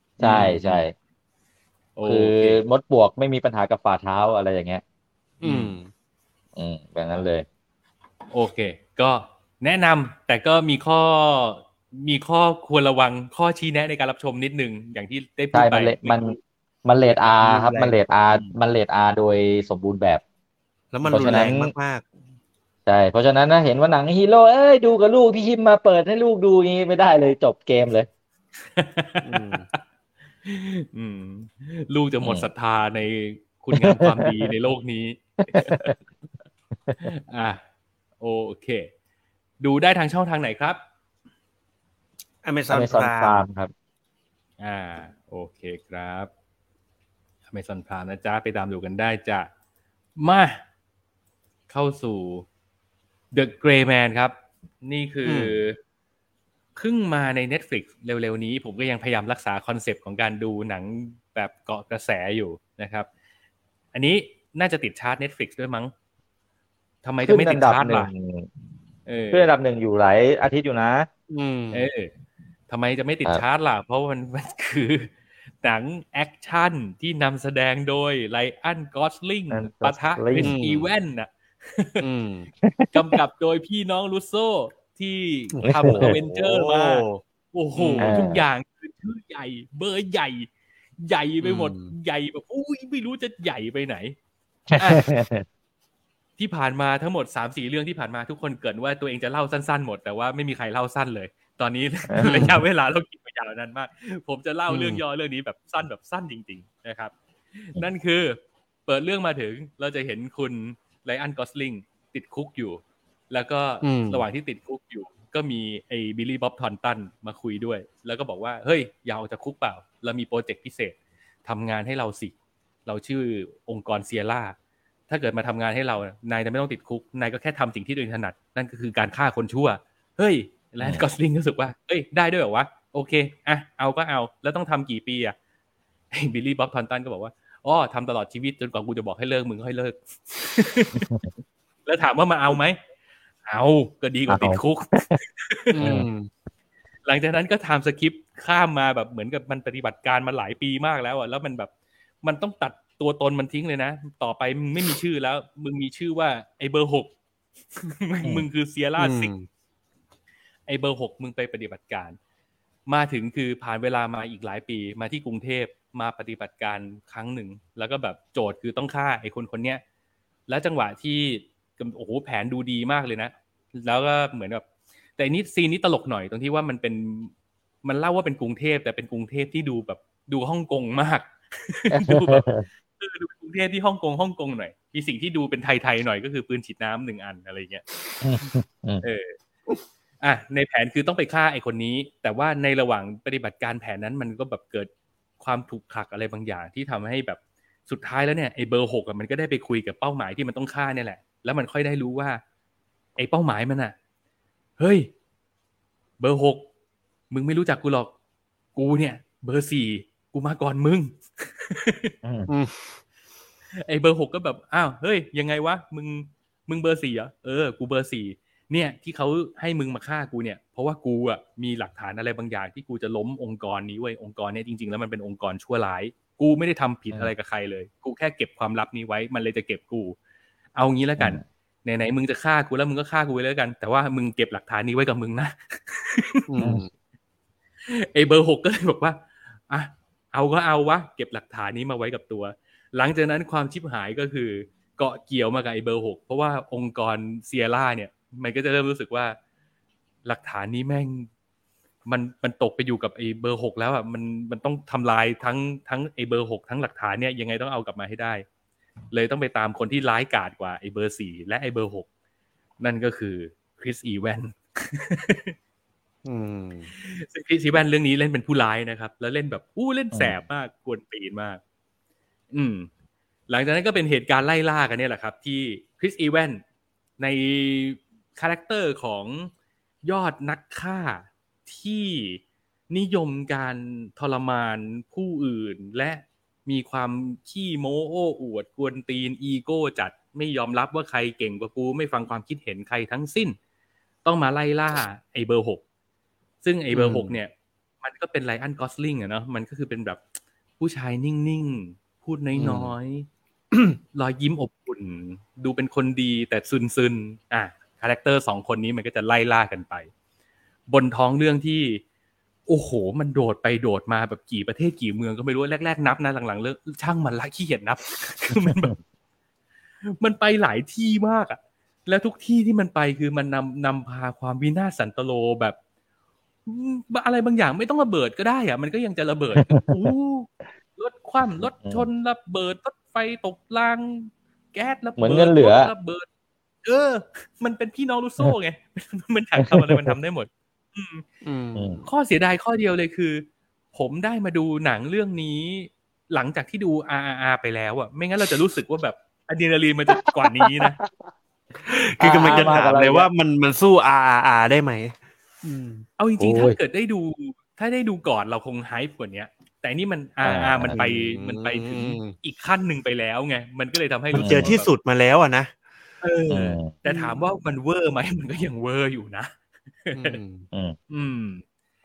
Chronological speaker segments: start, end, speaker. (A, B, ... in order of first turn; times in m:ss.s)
0:00.2-0:00.9 A
0:00.2-0:00.8 B
0:02.0-0:02.6 B
0:02.0-0:04.8 A
0:05.4-0:05.9 C
0:05.4-0:05.7 B
0:06.6-0:07.4 A
0:08.3-0:16.4 B
0:15.5-0:20.2 A
0:17.4-0:18.0 C
0:18.3-0:18.6 B
0:20.9-0:22.1 C
0:21.1-0:21.7 A
0:21.1-0:21.4 B
0:22.8-0:28.1 A
0:28.7-0:29.8 B
0:29.2-0:29.6 C
0:30.4-0:36.0 B
0:32.2-0:32.5 A
0:33.7-0:34.5 A
0:35.5-0:35.9 A
0:37.0-0:37.6 B
0:38.2-0:38.9 B
0:39.6-0:40.8 B
0:42.4-0:43.4 C
0:42.7-0:43.7 A
0:44.6-0:46.3 B
0:47.5-0:49.5 B
0:50.2-0:50.6 B
0:51.7-0:52.4 B
0:53.3-0:55.8 B
0:55.2-0:55.6 C
0:56.8-1:03.1 B
1:03.9-1:05.9 B
1:07.0-1:08.1 B
1:07.2-1:08.5 A
1:09.1-1:09.5 B
1:09.3-1:11.1 A
1:11.3-1:11.8 C
1:11.7-1:12.1 B
1:12.7-1:22.0 B
1:19.5-1:20.5 A
1:20.4-1:20.9 C
1:22.0-1:22.5 C
1:22.6-1:23.1 A
1:22.9-1:34.2 B
1:25.5-1:27.2 C
1:25.8-1:26.1 A
1:27.8-1:28.2 C
1:28.0-1:28.4 A
1:31.4-1:31.9 C
1:34.7-1:35.4 A
1:34.7-1:35.1 B
1:36.4-2:02.3 B
1:42.1-1:42.6 A
1:42.2-1:42.5 C
1:44.7-1:45.0 C
1:53.8-1:54.2 C
2:02.8-2:04.6 B
2:05.1-2:15.3 B
2:16.1-2:21.1 B
2:20.9-2:21.2 A
2:21.8-2:22.8 B
2:23.4-2:26.0 B
2:24.3-2:25.1 A
2:25.7-2:26.3 C
2:25.8-2:26.1 A
2:27.0-2:31.7 B
2:32.2-2:37.1 B
2:37.8-2:39.3 B
2:39.0-2:39.5 C
2:40.7-2:42.2 B
2:42.9-2:49.8 B
2:50.5-2:54.6 B
2:55.2-2:57.3 B
2:57.8-3:02.5 B
3:01.9-3:02.6 A
3:03.0-3:07.8 B
3:08.2-3:09.0 A
3:09.0-3:09.3 B
3:10.2-3:22.4 B
3:23.2-3:23.9 B
3:24.8-3:25.1 B
3:26.2-3:26.7 B
3:27.3-3:28.1 B
3:28.7-3:32.1 B
3:32.2-3:32.5 A
3:32.5-3:33.0 C
3:33.8-3:50.2 B
3:50.7-3:56.4 B
3:56.5-3:56.9 C
3:57.9-4:09.4 B
4:10.2-4:11.3 B
4:12.1-4:18.4 B
4:19.1-4:22.1 B
4:22.8-4:25.5 B
4:26.2-4:26.9 C
4:26.9-4:31.6 B
4:30.1-4:30.4 A
4:32.5-4:32.9 B
4:33.5-4:36.6 B
4:37.2-4:39.5 B
4:40.0-4:53.6 B
4:54.2-4:55.8 B
4:56.6-5:00.2 B
4:56.9-4:57.4 C
5:00.8-5:03.3 B
5:02.6-5:02.9 C
5:04.1-5:10.1 B
5:10.9-5:12.0 B
5:12.7-5:19.0 B
5:18.6-5:18.9 A
5:20.0-5:25.8 B
5:26.6-5:36.3 B
5:29.6-5:29.9 A
5:31.6-5:32.0 A
5:35.2-5:35.9 A
5:36.8-5:41.2 B
5:39.6-5:40.1 A
5:41.4-5:42.0 C
5:41.7-5:42.0 A
5:42.0-5:51.0 B
5:50.4-5:51.0 A
5:51.8-5:56.0 C
5:52.2-5:53.3 A
5:52.4-5:52.8 B
5:56.2-6:04.9 B
5:56.4-5:56.8 A
6:00.4-6:01.0 A
6:00.9-6:02.3 C
6:04.3-6:05.8 C
6:04.3-6:04.8 A
6:06.2-6:09.5 B
6:06.5-6:06.9 A
6:07.0-6:07.4 C
6:10.0-6:10.4 B
6:10.1-6:10.6 C
6:11.1-6:11.6 B